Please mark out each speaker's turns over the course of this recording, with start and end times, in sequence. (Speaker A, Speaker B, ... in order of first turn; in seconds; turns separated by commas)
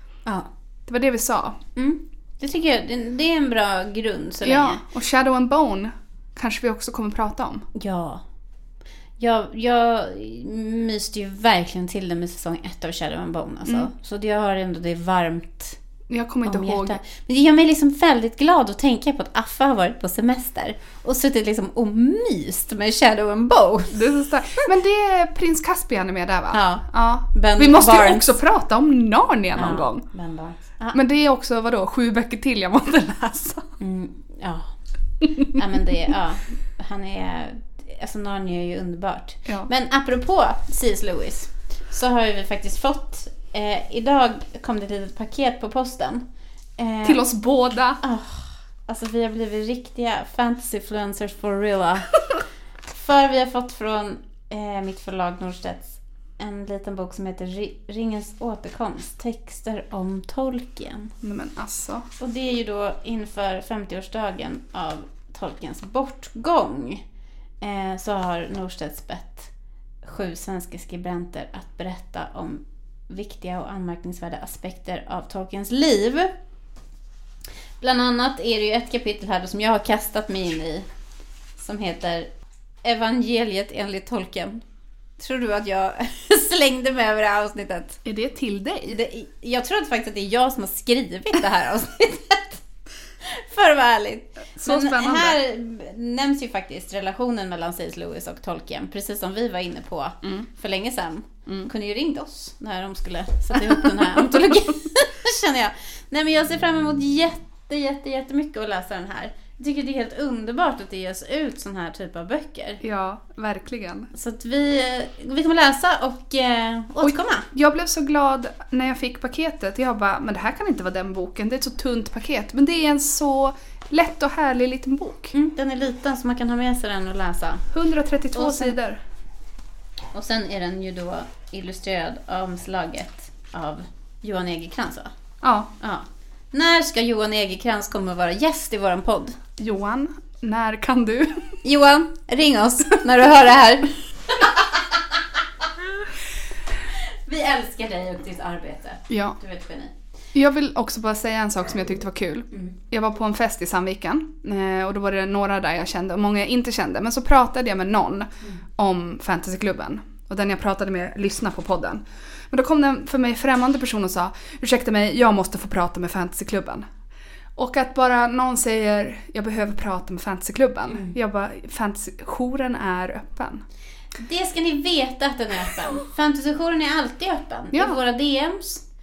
Speaker A: 0.9-1.6, Speaker B: 1.8-4.8, Speaker A: 4.4-7.7, Speaker B: 7.8-8.2, Speaker B: 9.2-15.8, Speaker A: 13.7-13.9, Speaker A: 16.1-17.0, Speaker B: 16.4-24.0, Speaker A: 23.9-30.1, Speaker B: 26.5-28.4, Speaker B: 29.6-31.0, Speaker A: 30.9-33.7, Speaker B: 33.8-34.7, Speaker B: 35.4-46.2, Speaker B: 46.8-47.2, Speaker A: 47.0-48.0, Speaker B: 48.0-52.2, Speaker B: 52.9-61.1, Speaker A: 61.2-62.1, Speaker B: 62.2-67.0, Speaker B: 67.6-69.5, Speaker B: 70.0-76.3, Speaker B: 77.8-80.9, Speaker B: 81.6-82.3, Speaker B: 82.8-84.6, Speaker B: 85.2-88.0, Speaker A: 88.0-89.0, Speaker B: 88.9-92.6, Speaker B: 93.2-112.8, Speaker A: 94.6-95.4, Speaker A: 112.8-114.1, Speaker B: 114.1-117.5, Speaker A: 117.0-125.3, Speaker B: 125.3-127.7, Speaker A: 127.7-129.0, Speaker B: 128.3-128.8, Speaker B: 130.1-135.1, Speaker A: 135.4-135.7, Speaker B: 135.8-139.4, Speaker A: 139.6-141.5, Speaker B: 141.6-145.0, Speaker B: 147.3-149.9, Speaker A: 149.1-149.4, Speaker A: 150.3-166.9, Speaker A: 167.6-173.6, Speaker B: 170.9-171.2, Speaker B: 174.2-178.8, Speaker A: 177.7-178.0